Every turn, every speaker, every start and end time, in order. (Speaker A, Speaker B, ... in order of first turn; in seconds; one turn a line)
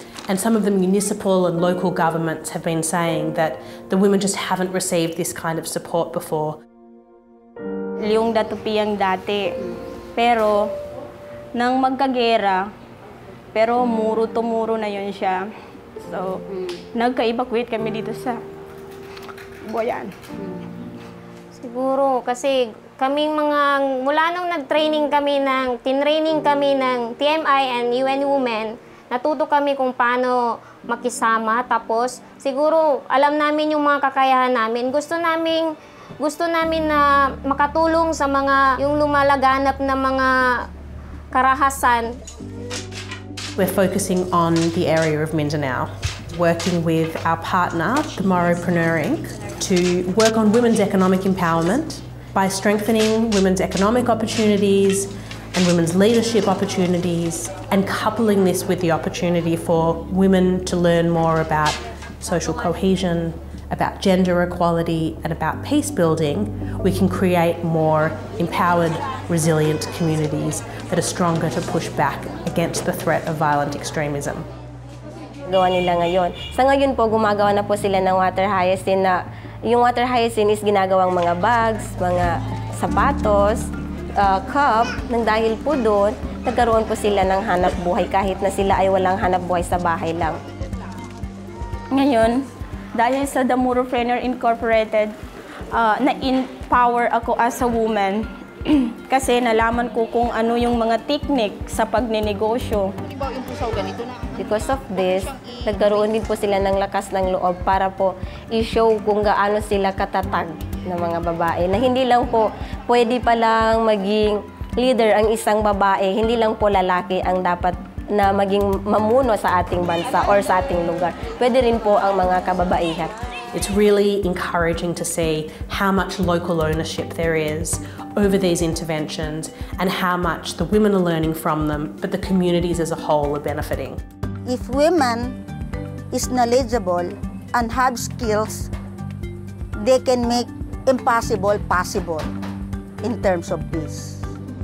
Speaker A: 0.3-6.6
Speaker B: 8.0-9.5
Speaker B: 10.2-10.7
Speaker B: 11.5-12.7
Speaker B: 13.5-15.4
Speaker B: 16.0-16.4
Speaker B: 16.9-18.4
Speaker B: 19.6-20.2
Speaker C: 21.6-40.6
Speaker C: 41.3-42.1
Speaker A: 43.6-74.4
Speaker D: 75.5-83.6
Speaker D: 84.2-90.3
Speaker B: 91.9-95.1
Speaker B: 95.7-102.9
Speaker D: 104.4-123.1
Speaker A: 123.5-134.0
Speaker E: 134.5-135.3
Speaker E: 136.1-138.7
Speaker E: 139.8-142.3
Speaker E: 143.0-144.2